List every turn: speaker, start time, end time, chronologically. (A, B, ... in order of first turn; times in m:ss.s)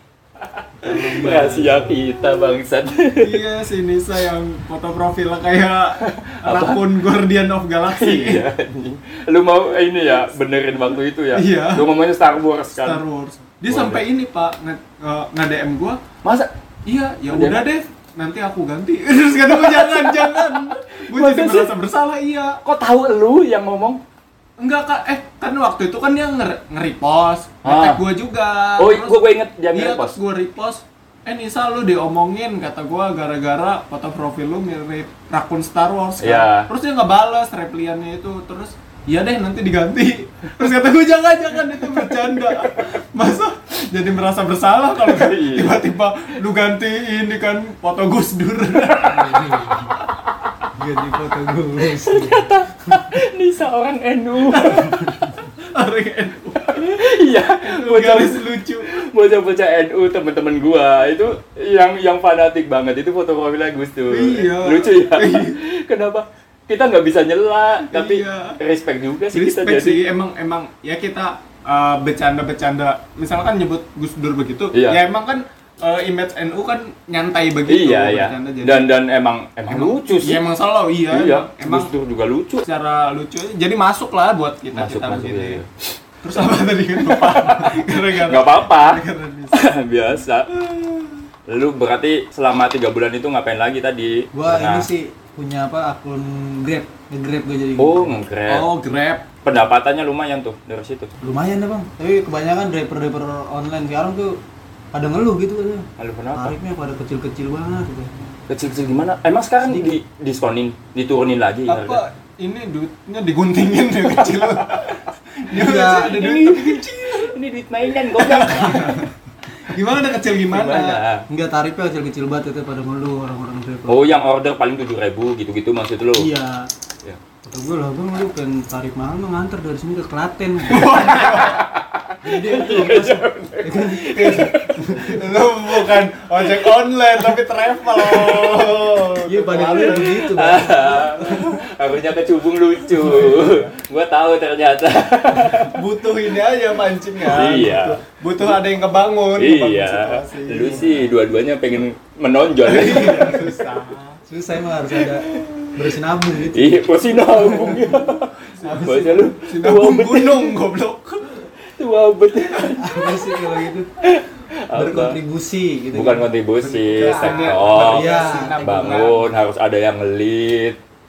0:00.4-0:03.4 A
0:00.8-0:02.0 B
0:03.2-0:08.4 C
0:06.0-0:06.8 A
0:07.9-0:13.0 A
0:11.3-0:11.9 C
0:12.7-0:16.0 C
0:13.7-0:14.0 A
0:16.2-0:16.5 A
0:16.8-0:22.6 C
0:17.3-0:17.7 A
0:19.5-0:21.7 A
0:22.6-0:24.0 A
0:24.6-0:49.9 C
0:27.6-0:28.0 A
0:28.8-0:30.2 A
0:36.2-0:36.7 A
0:45.0-0:45.8 A
0:50.7-0:52.4 B
0:51.8-0:55.2 A
0:54.5-0:54.9 C
0:55.6-0:57.0 C
0:56.7-1:10.0 A
0:57.6-0:59.0 C
1:04.1-1:05.6 C
1:07.9-1:08.6 C
1:09.3-1:18.8 C
1:14.7-1:15.0 A
1:17.7-1:20.4 A
1:19.7-1:21.9 C
1:21.1-1:22.6 A
1:22.6-1:25.6 C
1:24.7-1:25.7 A
1:26.2-1:29.6 C
1:27.0-1:30.5 A
1:30.5-1:31.2 C
1:31.5-1:34.9 A
1:34.3-1:38.1 B
1:37.8-1:38.7 A
1:38.5-1:39.3 C
1:39.4-1:41.1 A
1:41.2-1:44.4 B
1:44.9-1:48.1 B
1:46.0-1:46.6 A
1:48.5-1:52.0 A
1:51.6-1:57.3 C
1:55.5-1:56.2 B
1:56.1-1:59.0 A
1:58.2-1:59.1 C
1:59.6-2:01.0 C
2:00.5-2:01.2 A
2:01.3-2:04.2 B
2:03.9-2:06.3 A
2:06.1-2:06.7 B
2:07.4-2:11.2 B
2:10.7-2:11.6 C
2:11.1-2:15.0 A
2:12.2-2:15.2 B
2:14.1-2:20.3 C
2:16.4-2:16.7 A
2:17.9-2:18.9 A
2:19.2-2:21.5 B
2:19.8-2:25.8 A
2:23.0-2:23.6 C
2:25.6-2:30.9 C
2:27.2-2:28.0 A
2:29.4-2:33.5 A
2:32.6-2:34.2 C
2:34.3-2:37.9 B
2:35.1-2:35.5 A
2:36.5-2:40.6 A
2:38.6-2:41.4 C
2:41.6-2:43.5 A
2:42.8-2:43.9 B
2:44.0-2:45.2 A
2:44.7-2:46.2 B
2:45.9-2:50.8 A
2:46.6-2:49.3 C
2:47.4-2:49.1 B